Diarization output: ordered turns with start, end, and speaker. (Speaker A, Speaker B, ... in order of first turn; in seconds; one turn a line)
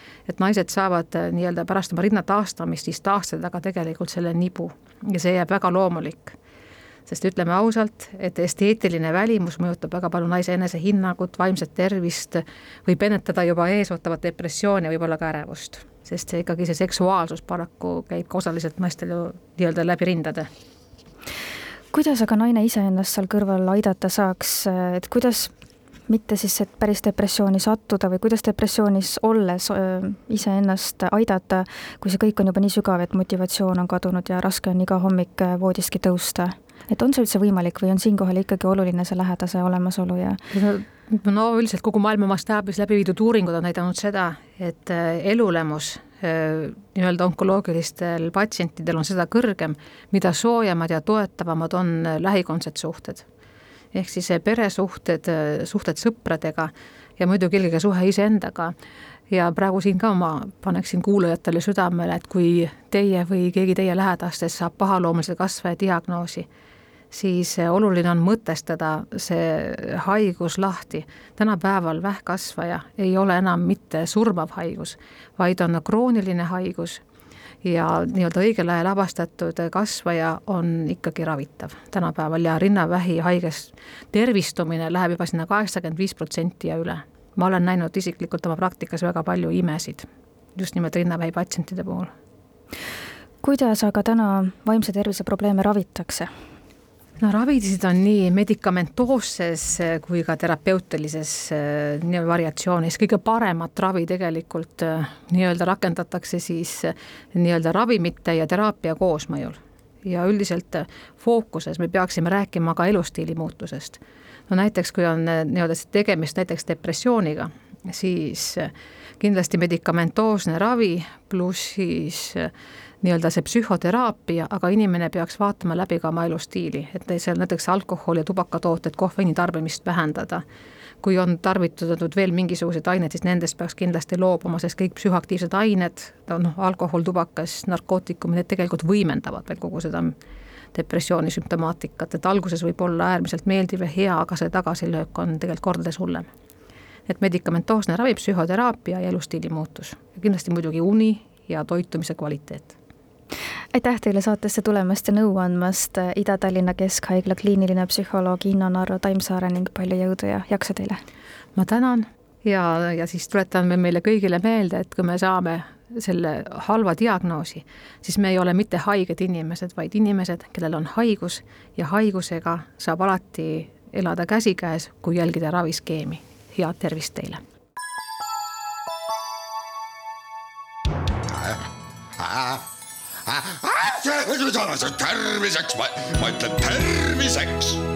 Speaker A: 0.3-6.3
Speaker A: 7.1-20.5
Speaker B: 21.9-25.5
Speaker B: 26.1-40.4
Speaker A: 40.5-53.2
Speaker A: 53.9-58.7
Speaker A: 59.3-66.5
Speaker A: 67.1-77.0
Speaker A: 77.6-92.1
Speaker B: 93.4-96.3
Speaker A: 97.2-122.5
Speaker A: 123.0-130.4
Speaker A: 131.0-140.2
Speaker A: 140.7-146.3
Speaker A: 147.1-152.7
Speaker B: 153.7-161.0
Speaker A: 161.6-177.4
Speaker C: 182.2-182.6
Speaker C: 183.2-187.8